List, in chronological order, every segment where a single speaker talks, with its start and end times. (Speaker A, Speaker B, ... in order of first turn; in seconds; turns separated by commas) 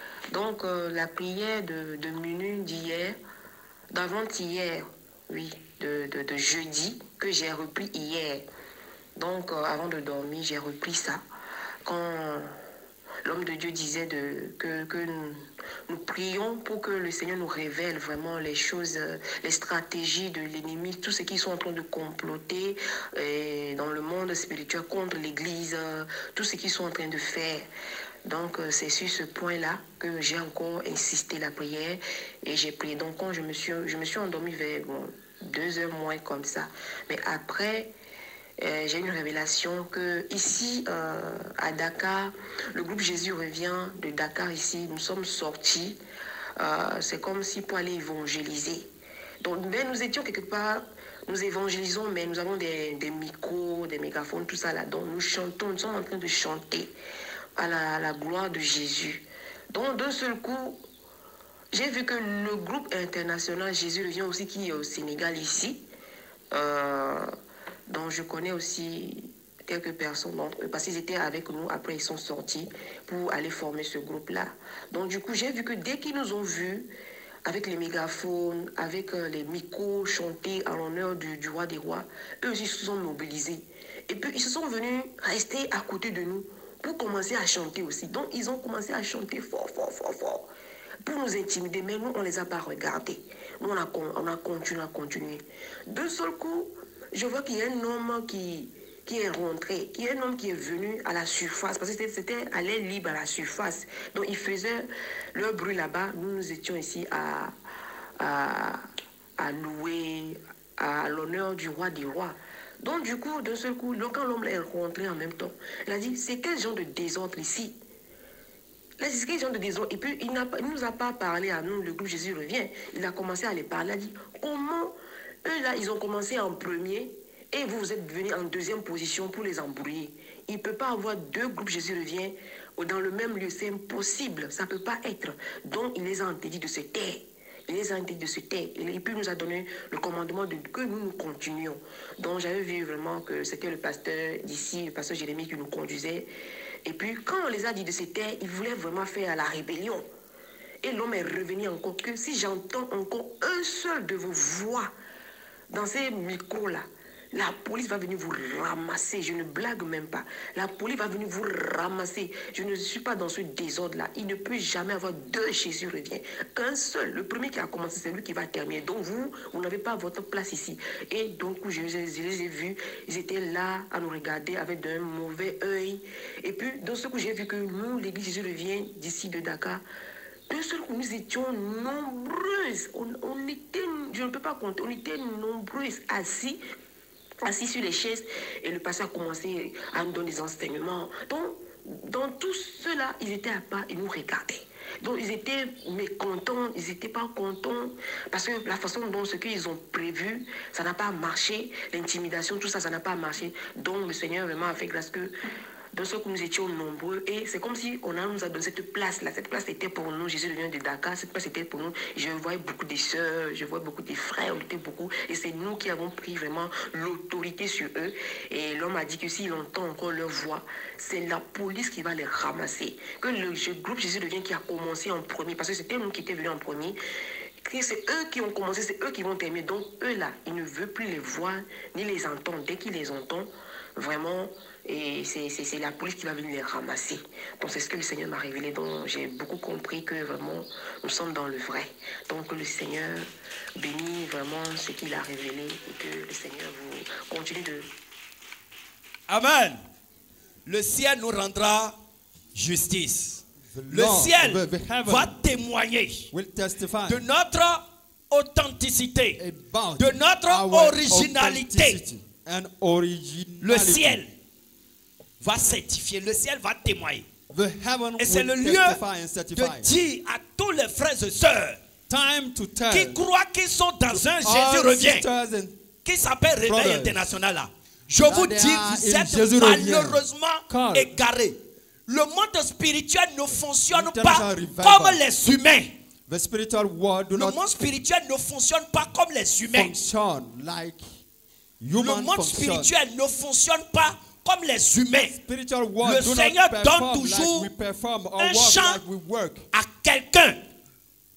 Speaker A: 0.3-3.2, Speaker A: 3.9-8.5, Speaker A: 9.2-11.2, Speaker A: 11.8-12.5, Speaker A: 13.2-27.7, Speaker A: 28.3-37.9, Speaker A: 38.6-46.0, Speaker A: 46.6-48.9, Speaker A: 49.4-56.9, Speaker A: 57.6-60.8, Speaker A: 61.7-65.8, Speaker A: 66.5-67.3, Speaker A: 67.9-76.9, Speaker A: 77.5-90.5, Speaker A: 91.0-107.5, Speaker A: 108.2-108.8, Speaker A: 109.4-117.8, Speaker A: 119.0-124.9, Speaker A: 125.5-146.3, Speaker A: 146.8-150.1, Speaker A: 150.8-154.9, Speaker A: 155.7-179.8, Speaker A: 180.5-186.6, Speaker A: 187.4-205.3, Speaker A: 205.9-227.0, Speaker A: 227.6-247.9, Speaker B: 249.3-249.8, Speaker B: 250.7-251.9, Speaker B: 252.6-256.3, Speaker C: 253.7-255.3, Speaker C: 256.3-257.2, Speaker B: 257.1-259.4, Speaker C: 259.4-264.2, Speaker B: 260.0-262.0, Speaker B: 263.6-264.3, Speaker B: 265.4-267.3, Speaker C: 267.5-269.9, Speaker B: 268.2-269.0, Speaker B: 269.6-271.8, Speaker C: 272.1-273.2, Speaker B: 272.9-275.3, Speaker C: 274.1-275.8, Speaker B: 276.1-285.9, Speaker C: 276.7-277.2, Speaker C: 278.2-281.1, Speaker C: 283.9-285.2, Speaker C: 286.3-287.6, Speaker B: 287.4-289.9, Speaker C: 289.7-291.0, Speaker C: 291.8-292.9, Speaker B: 292.0-295.4, Speaker C: 295.3-299.6, Speaker B: 296.0-297.7, Speaker B: 298.4-299.0, Speaker B: 299.7-300.6